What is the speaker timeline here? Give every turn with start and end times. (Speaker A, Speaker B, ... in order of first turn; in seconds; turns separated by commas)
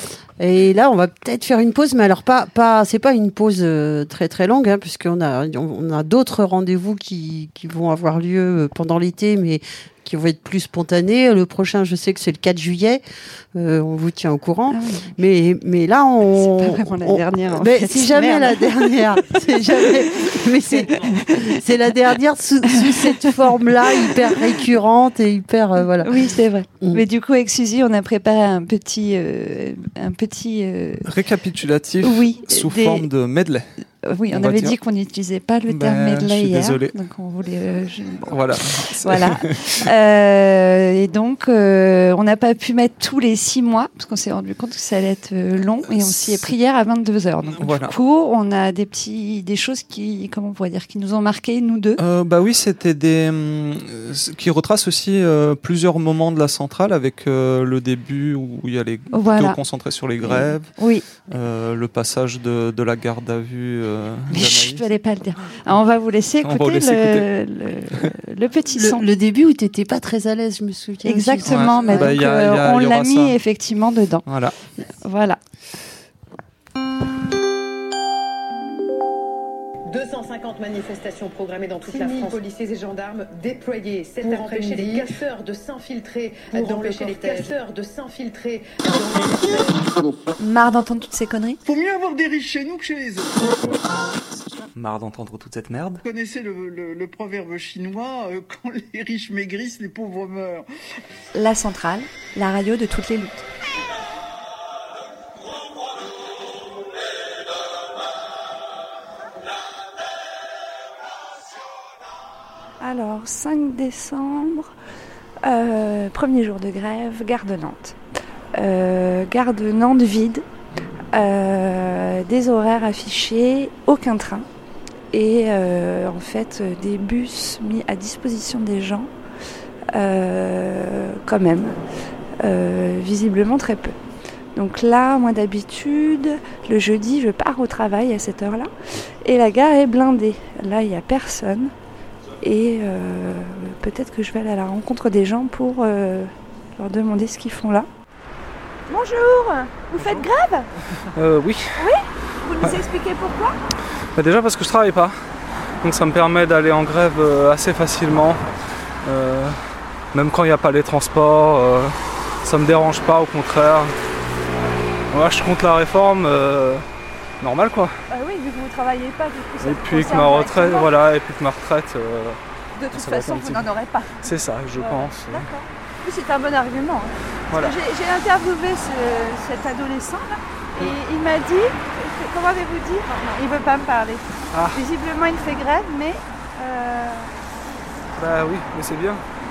Speaker A: 0.4-13.0, Speaker A: 13.5-27.0, Speaker B: 14.7-15.1, Speaker B: 16.3-21.6, Speaker B: 22.7-23.1, Speaker B: 26.0-31.1, Speaker C: 31.0-33.7, Speaker B: 32.0-33.1, Speaker B: 34.0-52.0, Speaker C: 34.3-34.7, Speaker C: 35.7-36.9, Speaker C: 38.3-39.9, Speaker C: 46.0-46.5, Speaker C: 47.5-47.9, Speaker C: 52.0-60.7, Speaker B: 59.1-59.6, Speaker B: 60.2-61.0, Speaker C: 61.3-64.8, Speaker B: 64.3-69.0, Speaker C: 66.4-67.3, Speaker A: 68.8-72.1, Speaker B: 71.0-74.3, Speaker C: 71.4-73.3, Speaker C: 74.2-74.5, Speaker B: 75.0-75.4, Speaker D: 79.9-89.7, Speaker E: 82.0-82.3, Speaker E: 84.3-85.0, Speaker E: 86.5-87.5, Speaker E: 89.1-90.2, Speaker B: 90.4-91.6, Speaker E: 91.6-93.5, Speaker C: 94.7-96.0, Speaker E: 96.0-100.6, Speaker B: 101.3-103.3, Speaker B: 112.8-114.7, Speaker B: 115.4-118.0, Speaker B: 118.5-120.4, Speaker B: 121.1-124.5, Speaker B: 125.1-129.1, Speaker B: 129.9-131.8, Speaker B: 132.4-133.9, Speaker B: 134.5-138.7, Speaker B: 139.2-141.7, Speaker B: 142.4-147.9, Speaker B: 149.6-150.6, Speaker F: 151.2-151.8, Speaker B: 152.7-153.4, Speaker F: 154.2-155.2, Speaker F: 155.8-158.4, Speaker F: 159.0-159.6, Speaker F: 160.1-163.9, Speaker F: 165.1-166.8, Speaker F: 167.4-168.0, Speaker B: 168.1-170.6, Speaker F: 169.6-172.4, Speaker B: 172.8-174.1, Speaker F: 172.9-173.7, Speaker F: 174.2-175.5, Speaker B: 175.3-187.3, Speaker F: 184.5-184.8, Speaker F: 188.2-189.2